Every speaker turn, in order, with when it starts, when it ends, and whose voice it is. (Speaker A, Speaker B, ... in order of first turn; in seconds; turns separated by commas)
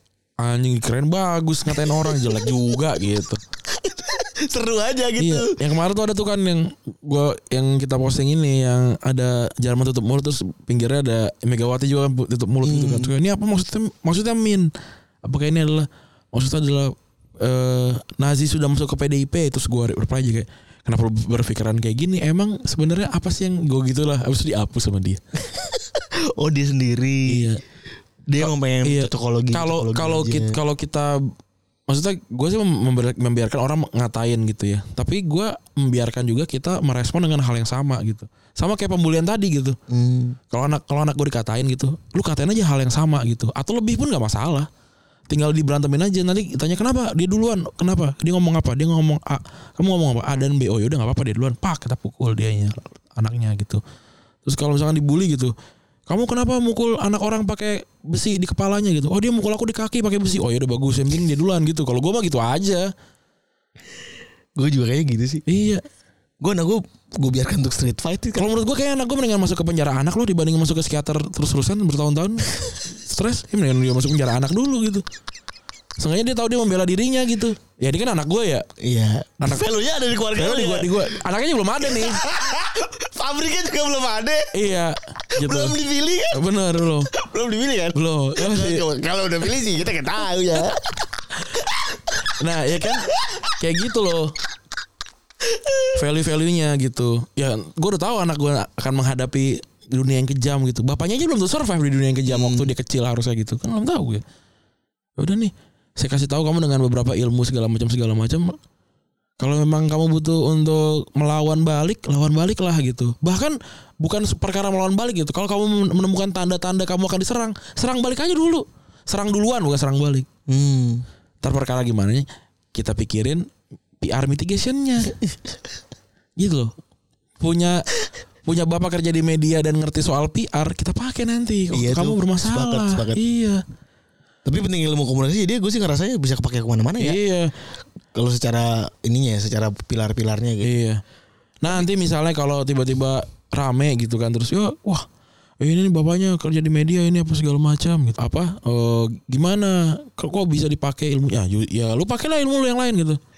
Speaker A: 0.4-3.4, Speaker B: 1.8-2.5, Speaker B: 3.7-5.5, Speaker A: 5.2-14.7, Speaker B: 12.6-13.1, Speaker A: 15.2-25.2, Speaker B: 25.5-27.5, Speaker A: 27.3-27.6, Speaker B: 28.3-30.6, Speaker A: 28.4-31.2, Speaker A: 31.9-39.8, Speaker B: 39.9-40.4, Speaker A: 40.5-44.7, Speaker A: 45.3-53.8, Speaker A: 54.5-55.5, Speaker A: 56.1-62.9, Speaker B: 64.6-65.5, Speaker A: 65.5-65.8, Speaker B: 66.4-68.5, Speaker A: 68.4-75.0, Speaker A: 76.0-78.7, Speaker B: 78.8-81.2, Speaker A: 79.4-79.7, Speaker A: 80.3-82.2, Speaker B: 81.8-84.5, Speaker A: 84.5-85.8, Speaker B: 85.3-86.4, Speaker A: 86.3-87.1, Speaker B: 87.1-92.3, Speaker A: 88.0-88.8, Speaker A: 92.4-94.3, Speaker B: 95.5-95.9, Speaker A: 95.9-104.2, Speaker B: 102.3-102.7, Speaker A: 105.2-108.6, Speaker A: 109.4-120.3, Speaker B: 120.5-121.0, Speaker A: 121.4-123.5, Speaker A: 124.0-125.2, Speaker A: 126.4-126.7, Speaker A: 127.4-127.8, Speaker A: 128.5-133.6, Speaker B: 131.7-133.2, Speaker B: 134.4-137.2, Speaker A: 137.0-137.5, Speaker B: 138.1-140.7, Speaker A: 140.6-141.0, Speaker A: 141.6-145.1, Speaker A: 145.6-153.2